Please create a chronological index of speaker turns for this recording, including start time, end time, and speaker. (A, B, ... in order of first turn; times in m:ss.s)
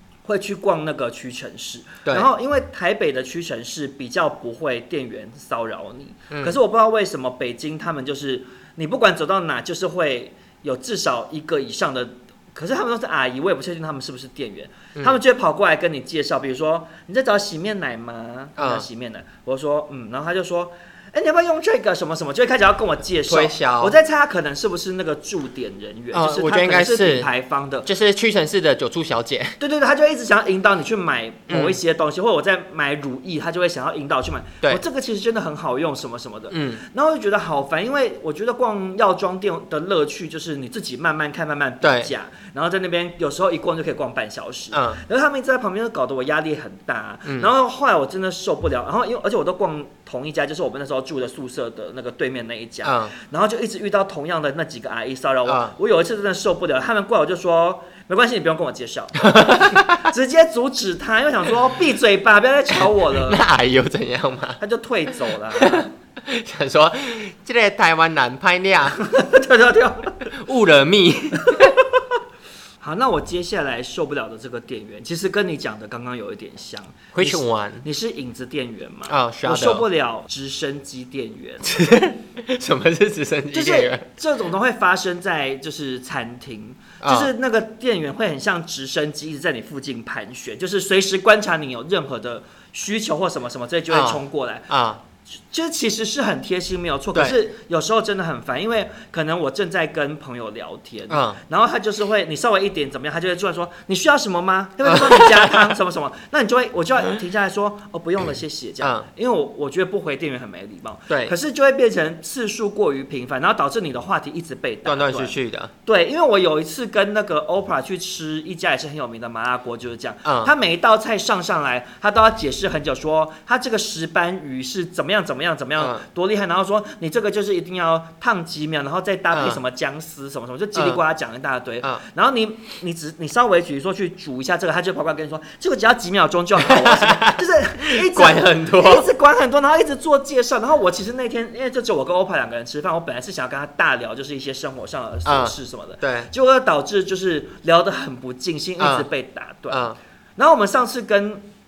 0:00.2-0:27.9 A
0:06.3-0:06.6 B
0:18.6-0:18.8 B
0:23.3-0:24.0 B
0:26.1-0:27.3 B
0:27.8-0:29.6 B
0:29.6-1:03.4 A
0:31.5-0:31.8 B
0:36.5-0:36.8 B
0:41.8-0:42.1 B
0:44.7-0:45.0 B
0:47.2-0:47.5 B
0:52.8-0:53.1 B
0:55.4-0:55.7 B
0:59.2-1:00.1 B
1:02.8-1:04.6 B
1:04.6-1:05.9 A
1:05.6-1:09.0 B
1:08.9-1:10.3 A
1:10.3-1:11.8 B
1:11.4-1:11.8 A
1:12.8-1:21.7 A
1:17.1-1:17.8 B
1:19.1-1:19.8 B
1:21.6-1:24.0 B
1:23.5-1:34.7 A
1:27.0-1:27.3 B
1:33.9-1:35.0 B
1:35.3-2:31.4 A
1:37.1-1:37.4 B
1:41.1-1:41.4 B
1:44.8-1:45.7 B
1:48.8-1:49.0 B
1:51.1-1:51.3 B
1:54.8-1:55.7 B
2:00.2-2:00.5 B
2:05.8-2:06.0 B
2:09.3-2:09.6 B
2:10.7-2:11.0 B
2:16.6-2:19.1 B
2:25.2-2:26.3 B
2:28.8-2:29.1 B
2:29.7-2:30.0 B